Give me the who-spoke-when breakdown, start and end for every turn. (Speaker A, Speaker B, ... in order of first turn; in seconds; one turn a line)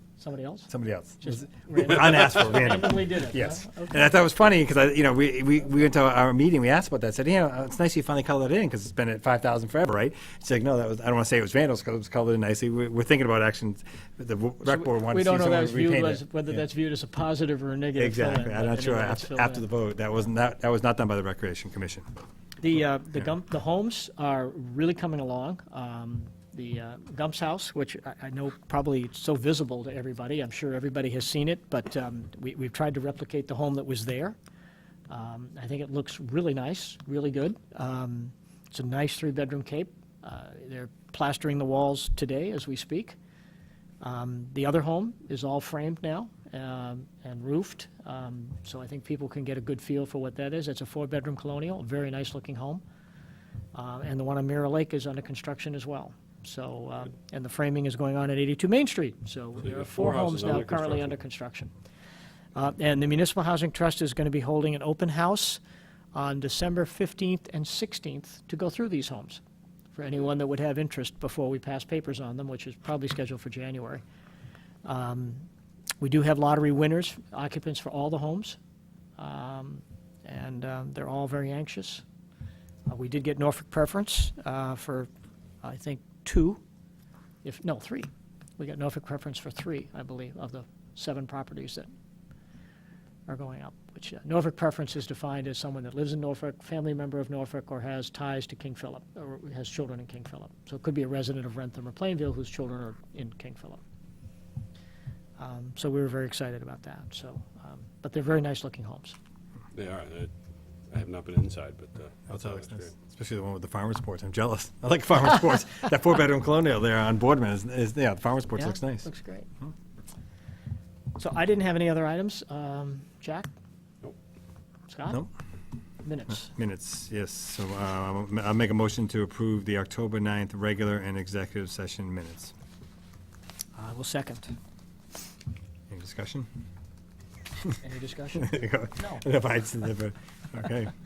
Speaker A: 0.2-4.1
Speaker B: 0.7-16.6
Speaker A: 14.6-19.6
Speaker B: 17.9-22.1
Speaker A: 22.6-34.4
Speaker A: 35.1-43.1
Speaker A: 44.0-52.8
Speaker A: 53.7-61.7
Speaker C: 59.6-61.1
Speaker A: 62.5-65.6
Speaker A: 66.1-69.4
Speaker A: 69.9-74.0
Speaker A: 74.8-75.5
Speaker A: 76.0-78.6
Speaker A: 79.2-82.0
Speaker A: 82.9-85.1
Speaker A: 85.6-86.6
Speaker A: 87.4-91.9
Speaker A: 93.3-103.8
Speaker A: 105.4-109.1
Speaker C: 109.7-110.3
Speaker C: 110.9-112.9
Speaker B: 112.3-119.1
Speaker A: 118.6-119.5
Speaker A: 121.2-123.5
Speaker A: 124.9-125.2
Speaker A: 126.0-126.5
Speaker B: 126.3-132.5
Speaker A: 133.8-134.5
Speaker B: 135.9-136.5
Speaker A: 137.8-139.2
Speaker B: 138.4-140.9